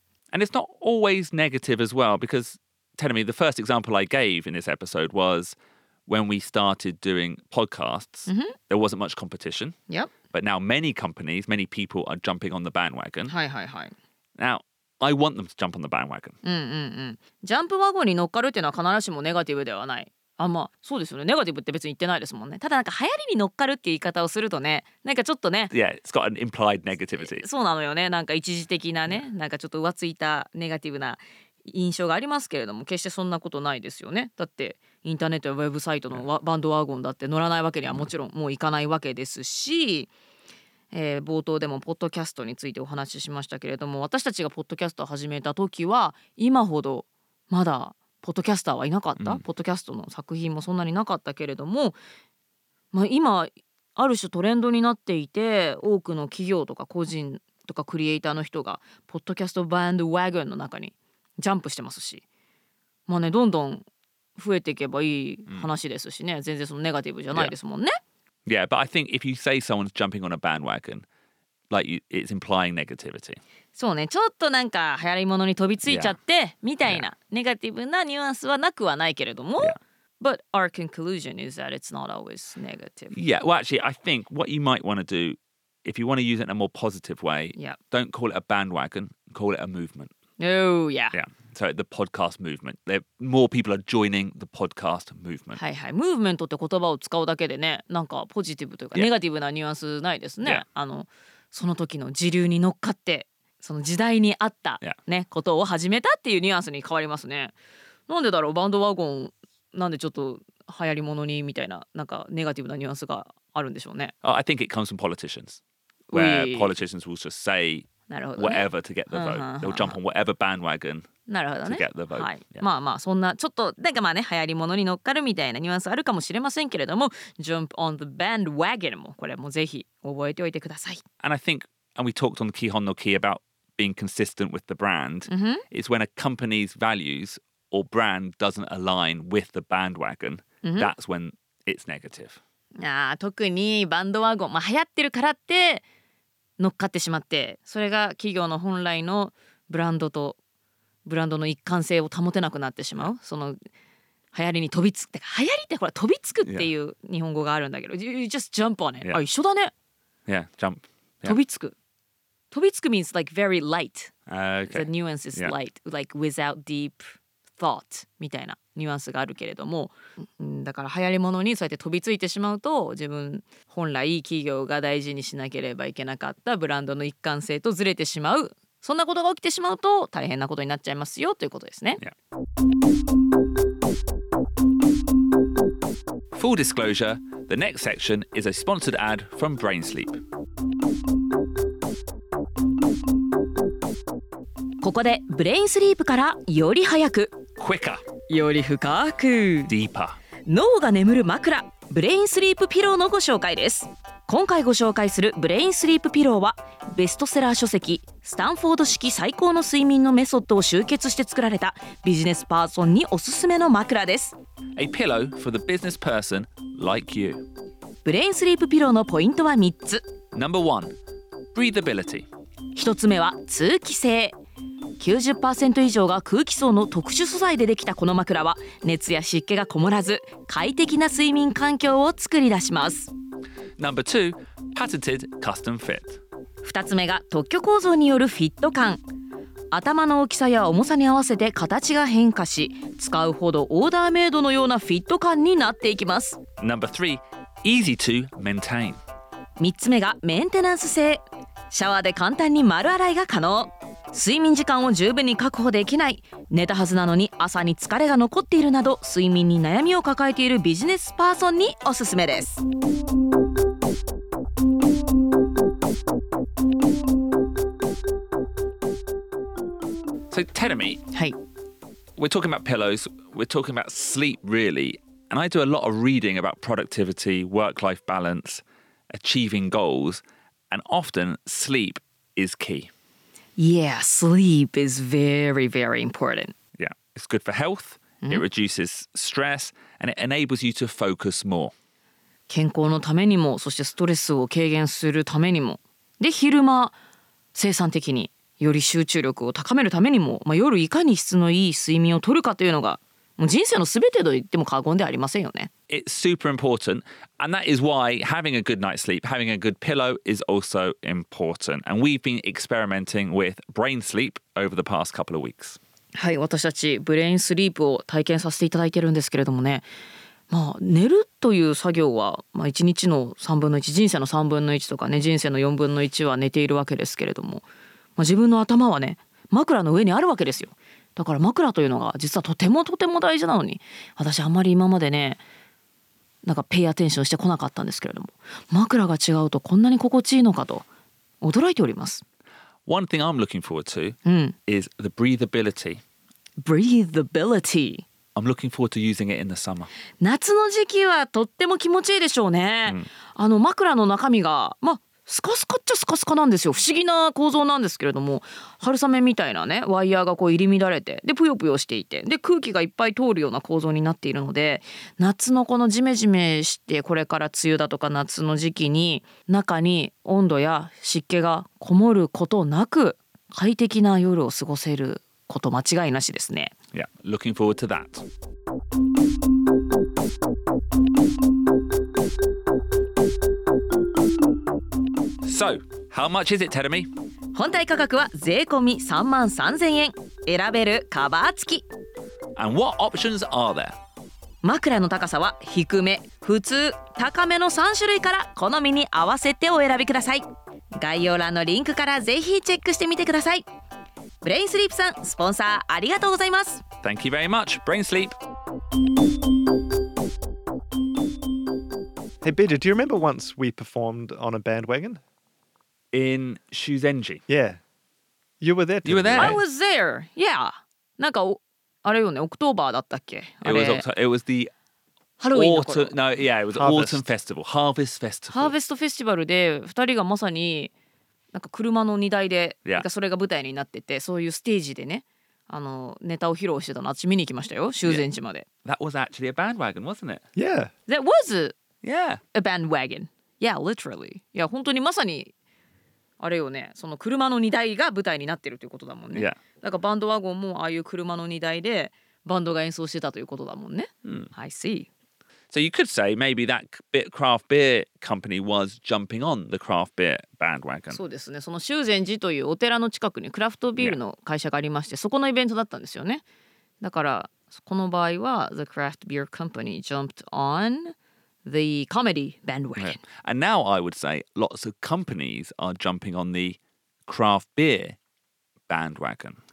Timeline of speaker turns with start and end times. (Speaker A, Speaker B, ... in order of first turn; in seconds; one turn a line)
Speaker A: 0.3-5.5
Speaker A: 6.1-9.8
Speaker B: 8.3-8.6
Speaker A: 10.3-13.3
Speaker B: 13.3-13.9
Speaker A: 14.4-16.4
Speaker B: 16.4-25.7
Speaker A: 25.7-27.4
Speaker B: 27.2-40.1
Speaker B: 40.9-52.0
Speaker B: 52.9-62.2
Speaker B: 63.1-68.0
Speaker A: 68.5-71.0
Speaker A: 71.7-73.4
Speaker B: 73.7-83.2
Speaker A: 75.8-76.2
Speaker A: 83.1-90.1
Speaker B: 90.4-91.2
Speaker A: 91.1-95.6
Speaker B: 95.5-107.5
Speaker B: 108.1-114.1
Speaker A: 114.2-115.6
Speaker B: 116.1-116.7
Speaker A: 116.1-121.1
Speaker B: 118.1-120.0
Speaker B: 121.3-131.0
Speaker A: 121.6-122.7
Speaker A: 131.2-142.4
Speaker B: 135.3-135.6
Speaker B: 140.6-140.9
Speaker B: 142.8-145.8
Speaker B: 146.6-150.4
Speaker B: 151.0-153.6
Speaker B: 154.3-159.7
Speaker A: 156.4-156.7
Speaker A: 160.3-161.4
Speaker B: 161.2-161.7
Speaker B: 162.5-164.1
Speaker A: 164.3-165.5
Speaker B: 164.7-182.0
Speaker A: 186.3-190.2
Speaker B: 194.8-197.4
Speaker A: 197.6-198.0
Speaker B: 198.3-199.7
Speaker A: 199.7-200.2
Speaker B: 200.4-214.3
Speaker A: 214.8-217.4
Speaker B: 218.0-220.1
Speaker A: 220.3-220.9
Speaker A: 221.5-222.3
Speaker B: 222.7-224.3
Speaker B: 225.0-233.1
Speaker A: 233.8-236.2
Speaker B: 236.6-239.0
Speaker B: 239.7-246.4
Speaker A: 246.6-249.0
Speaker B: 249.6-262.6
Speaker A: 270.3-271.0
Speaker A: 272.2-282.9
Speaker B: 283.6-286.5
Speaker A: 286.8-291.7
Speaker B: 292.5-296.9
Speaker B: 297.5-305.7
Speaker A: 305.9-315.8
Speaker B: 316.1-319.9
Speaker B: 320.5-327.6
Speaker B: 328.2-335.4
Speaker B: 336.4-340.9
Speaker B: 341.4-342.2
Speaker A: 342.9-346.0
Speaker B: 344.2-344.6
Speaker B: 346.6-348.1
Speaker A: 348.3-349.9
Speaker B: 350.2-376.7
Speaker A: 376.9-378.2
Speaker A: 385.4-387.1
Speaker B: 387.5-391.9
Speaker A: 392.6-393.9
Speaker B: 394.6-403.6
Speaker B: 404.4-406.8
Speaker A: 407.0-408.3
Speaker C: 412.4-415.2
Speaker A: 416.1-417.4
Speaker C: 417.5-417.8
Speaker C: 418.6-419.6
Speaker A: 419.0-419.6
Speaker B: 419.4-424.1
Speaker A: 423.6-424.7
Speaker B: 425.4-426.1
Speaker A: 425.5-428.7
Speaker C: 426.8-427.2
Speaker B: 428.5-430.9
Speaker B: 431.5-438.6
Speaker A: 438.8-440.4
Speaker C: 440.6-440.9
Speaker B: 441.1-441.8
Speaker A: 442.0-442.4
Speaker B: 442.5-445.5
Speaker B: 446.4-455.1
Speaker A: 449.3-449.6
Speaker A: 454.2-454.5
Speaker A: 455.7-461.2
Speaker B: 461.1-466.4
Speaker B: 467.0-473.2
Speaker A: 473.0-478.2
Speaker A: 478.9-479.6